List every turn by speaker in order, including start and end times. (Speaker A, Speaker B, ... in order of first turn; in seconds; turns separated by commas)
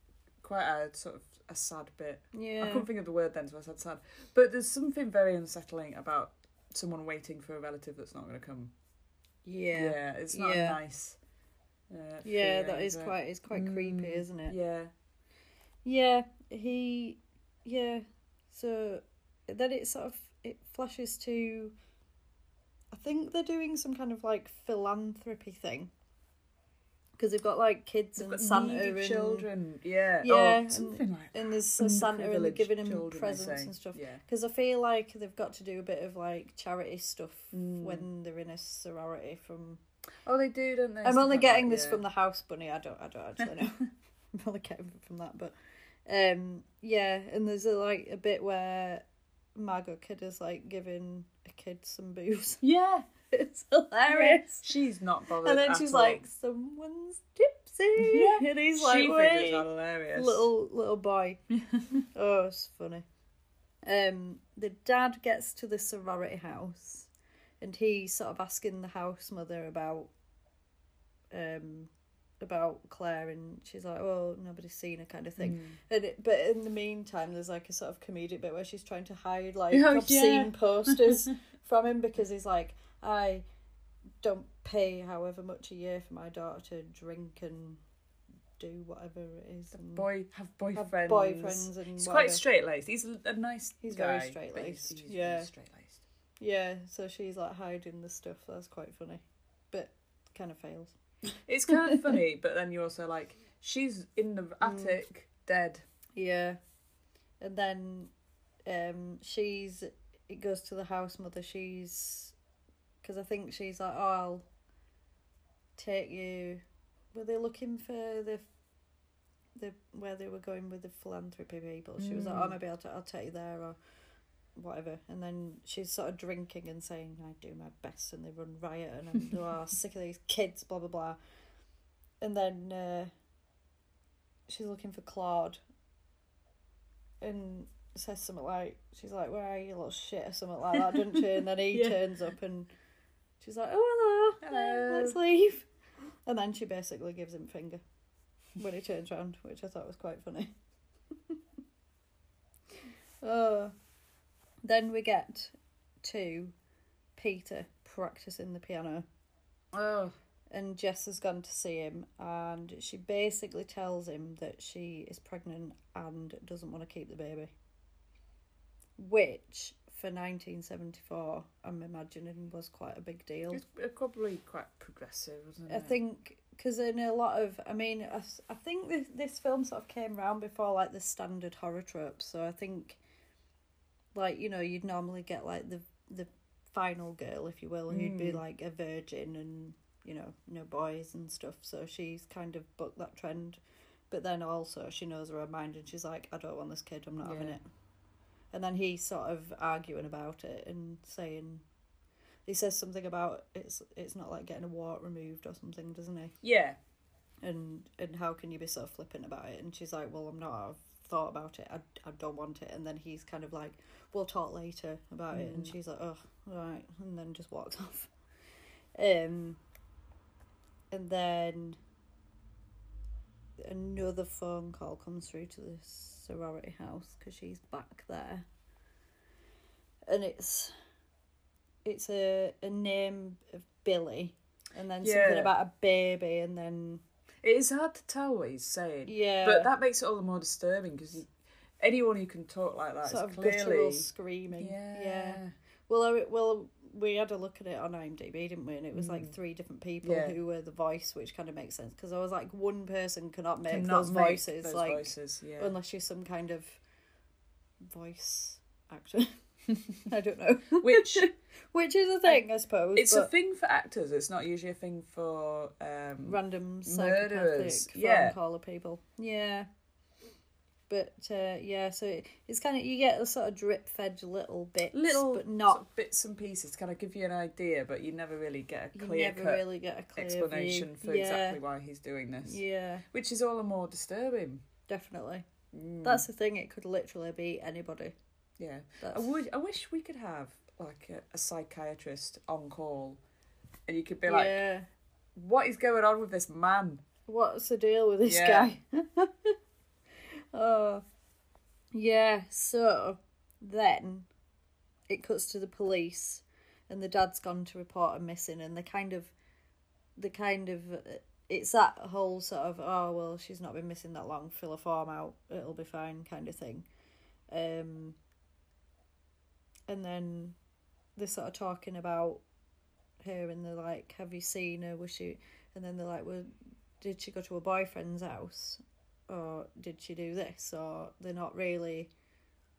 Speaker A: 0.4-8.7, Speaker B: 2.3-2.9, Speaker B: 9.4-10.8, Speaker A: 9.7-11.2, Speaker A: 11.9-14.9, Speaker B: 12.2-14.6, Speaker B: 15.8-21.7, Speaker B: 22.9-25.9, Speaker B: 27.2-29.5, Speaker A: 28.2-34.2, Speaker B: 30.2-39.8, Speaker A: 37.5-38.0, Speaker A: 40.3-42.0, Speaker B: 41.0-43.8, Speaker B: 44.3-45.5, Speaker B: 46.1-49.0, Speaker B: 49.6-52.6, Speaker A: 52.6-53.1, Speaker B: 53.3-54.6, Speaker A: 54.1-56.2, Speaker B: 55.4-61.4, Speaker A: 58.0-60.5, Speaker B: 62.1-63.0, Speaker B: 63.8-67.1, Speaker B: 67.6-70.1, Speaker B: 71.3-71.9, Speaker B: 72.4-83.4, Speaker A: 75.4-75.8, Speaker A: 79.7-81.3, Speaker B: 84.2-87.8, Speaker B: 88.6-90.1, Speaker A: 89.8-96.0, Speaker B: 90.8-92.4, Speaker B: 93.8-95.5, Speaker B: 96.4-101.0, Speaker A: 101.5-105.8, Speaker B: 104.6-105.0, Speaker B: 106.2-106.6, Speaker B: 107.4-108.1, Speaker B: 108.7-112.3, Speaker B: 113.0-114.5, Speaker B: 115.8-116.6, Speaker B: 117.1-118.5, Speaker B: 119.6-123.8, Speaker A: 122.0-122.6, Speaker B: 124.6-131.2, Speaker B: 132.2-133.1, Speaker B: 134.5-135.6, Speaker B: 137.2-142.7, Speaker A: 140.9-141.2, Speaker A: 141.7-142.0, Speaker B: 143.4-145.7, Speaker A: 144.4-145.2, Speaker B: 146.3-147.8, Speaker B: 148.6-150.5, Speaker B: 153.2-153.7, Speaker B: 154.6-156.5, Speaker B: 157.2-159.1, Speaker A: 159.7-160.2, Speaker B: 160.5-167.5, Speaker B: 169.0-173.6, Speaker A: 173.5-175.9, Speaker B: 175.7-183.0, Speaker B: 184.2-197.7, Speaker A: 187.9-188.4, Speaker A: 197.2-197.6, Speaker B: 198.5-201.6, Speaker B: 202.5-206.3, Speaker A: 206.4-206.8, Speaker B: 207.4-218.1, Speaker A: 215.3-215.7, Speaker B: 218.9-219.6, Speaker B: 220.9-221.8, Speaker B: 223.6-228.5, Speaker B: 230.1-230.7, Speaker B: 231.8-237.0, Speaker A: 235.0-235.5, Speaker A: 237.4-241.3, Speaker B: 239.1-239.7, Speaker A: 241.8-245.5, Speaker B: 243.1-256.8, Speaker A: 248.9-249.3, Speaker A: 250.0-250.4, Speaker A: 253.7-255.7, Speaker B: 257.8-259.4, Speaker B: 260.1-263.3, Speaker A: 260.8-261.3, Speaker A: 262.9-268.4, Speaker B: 266.3-269.7, Speaker B: 270.9-275.8, Speaker A: 274.9-279.6, Speaker B: 278.9-281.6, Speaker A: 280.2-282.6, Speaker B: 282.4-283.0, Speaker A: 283.1-284.6, Speaker B: 284.9-285.4, Speaker A: 285.7-286.2, Speaker B: 286.0-288.1, Speaker A: 288.6-293.2, Speaker B: 289.0-289.3, Speaker A: 293.9-294.6, Speaker B: 294.3-294.9, Speaker A: 295.4-297.0, Speaker B: 297.3-299.6, Speaker A: 298.3-298.7, Speaker B: 300.5-301.0, Speaker B: 301.9-304.3, Speaker B: 305.1-309.3, Speaker B: 310.2-316.9, Speaker B: 317.5-318.2, Speaker B: 319.9-320.6, Speaker B: 321.2-322.4, Speaker B: 323.2-332.1